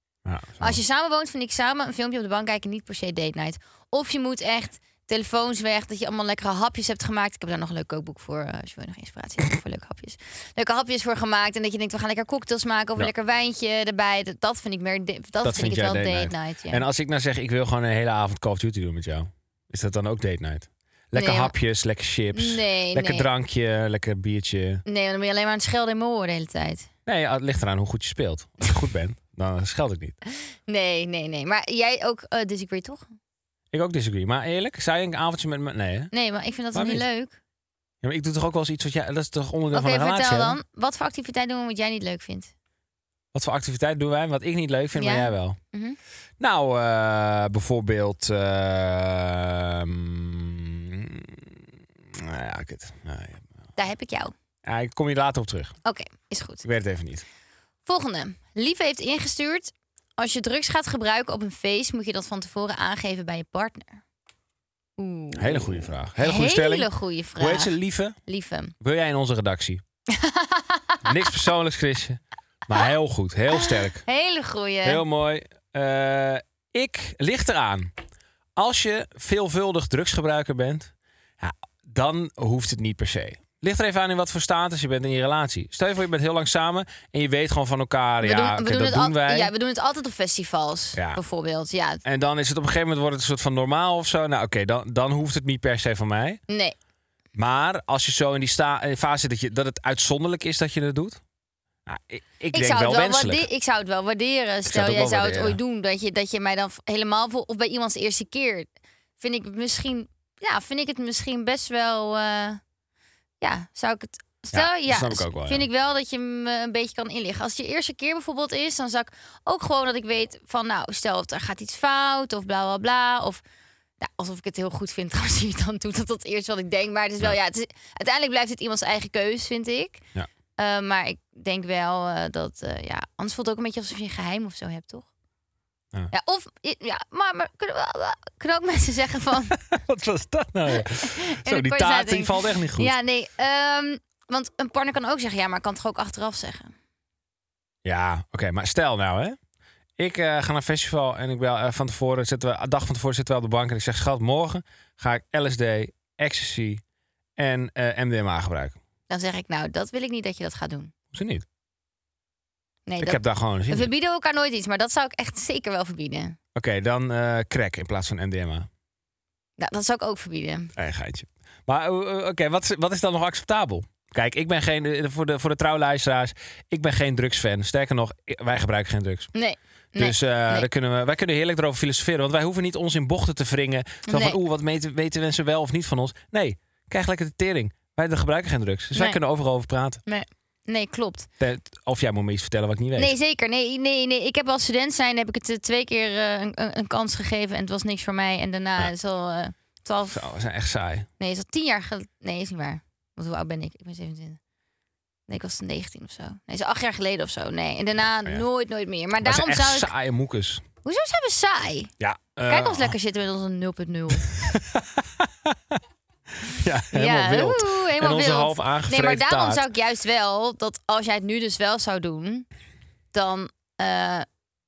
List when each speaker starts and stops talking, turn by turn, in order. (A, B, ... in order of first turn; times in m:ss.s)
0:00.2-0:00.8 A
0:00.6-0:16.8 B
0:15.4-0:24.8 A
0:21.2-0:21.5 B
0:22.3-0:23.3 B
0:24.9-0:26.9 B
0:27.1-0:30.2 A
0:30.7-0:33.1 B
0:33.7-0:36.1 A
0:36.1-0:37.4 B
0:36.7-0:37.0 A
0:38.0-0:40.6 A
0:39.7-0:42.5 B
0:43.3-0:45.6 A
0:45.0-0:46.0 B
0:46.4-0:51.6 A
0:52.1-0:53.5 A
0:53.8-0:54.3 B
0:54.6-0:55.7 A
0:55.8-0:56.6 B
0:56.6-0:57.2 A
0:57.9-1:04.0 B
1:05.0-1:07.8 B
1:05.4-1:08.2 A
1:08.3-1:08.7 B
1:08.8-1:09.8 A
1:10.1-1:11.0 B
1:11.0-1:14.0 A
1:13.5-1:15.0 B
1:14.8-1:17.9 A
1:18.6-1:29.5 A
1:28.2-1:32.0 B
1:31.0-1:31.2 A
1:32.0-1:36.4 A
1:36.5-1:36.8 B
1:37.4-1:41.2 A
1:41.9-1:43.5 A
1:42.5-1:52.6 B
1:44.7-1:45.6 A
1:53.4-2:03.4 B
1:54.5-1:55.7 A
2:04.0-2:10.0 B
2:10.6-2:15.1 B
2:16.1-2:19.6 B
2:19.5-2:22.9 A
2:20.8-2:26.7 B
2:27.8-2:29.4 A
2:30.0-2:36.8 A
2:37.4-2:38.8 A
2:39.1-2:40.9 B
2:41.1-2:41.5 A
2:42.9-2:46.4 B
2:43.0-2:43.9 A
2:46.6-2:48.7 A
2:49.6-2:50.7 B
2:50.8-2:59.3 A
2:59.3-3:00.7 B
3:00.0-3:10.0 A
3:04.1-3:04.4 B
3:10.1-3:11.3 B
3:11.4-3:13.2 A
3:13.0-3:20.2 B
3:20.1-3:21.1 A
3:21.2-3:24.4 B
3:25.3-3:29.9 B
3:29.2-3:30.6 A
3:30.8-3:31.9 B
3:32.0-3:32.9 A
3:32.5-3:34.3 B
3:34.3-3:35.6 A
3:36.4-3:39.6 A
3:36.9-3:42.5 B
3:43.1-3:44.3 B